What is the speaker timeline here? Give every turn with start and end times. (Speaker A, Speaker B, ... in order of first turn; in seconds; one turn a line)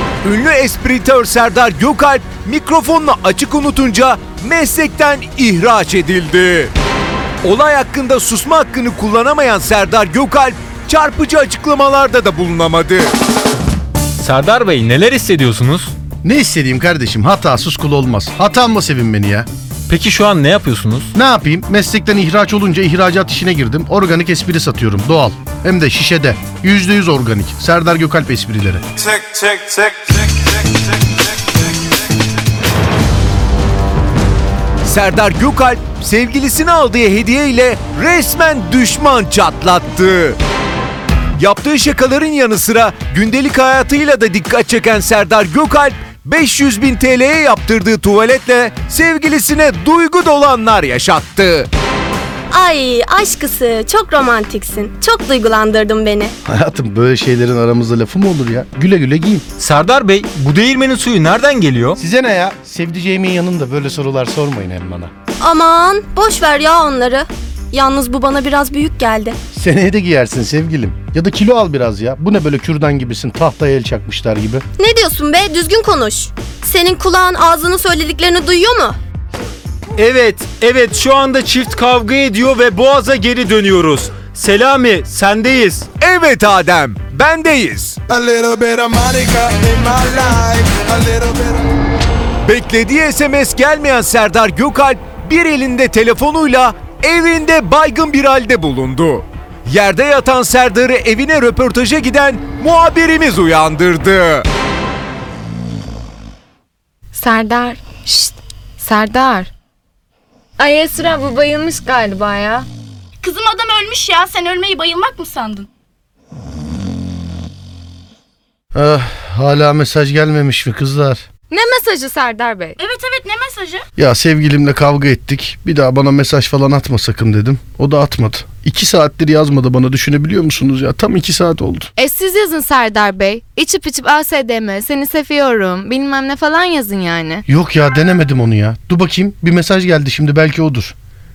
Speaker A: 0.2-6.7
Speaker A: 7.4-13.1
Speaker B: 14.2-15.9
Speaker C: 16.2-19.5
Speaker B: 19.9-21.1
Speaker C: 21.1-28.8
Speaker A: 34.8-40.4
Speaker A: 41.4-51.7
Speaker D: 52.5-56.3
Speaker C: 56.5-59.4
Speaker B: 59.6-62.0
Speaker C: 62.0-65.1
Speaker D: 65.4-69.4
Speaker C: 69.5-74.6
Speaker D: 74.8-79.0
Speaker B: 80.0-85.9
Speaker A: 86.0-88.0
Speaker E: 88.1-91.6
Speaker A: 92.4-104.5
Speaker F: 107.1-109.5
Speaker F: 110.6-112.7
Speaker G: 113.2-115.7
Speaker C: 118.7-121.2
Speaker F: 121.5-122.8
Speaker G: 122.8-123.8
Speaker C: 124.0-131.9
Speaker F: 132.0-137.4
Speaker C: 137.5-140.9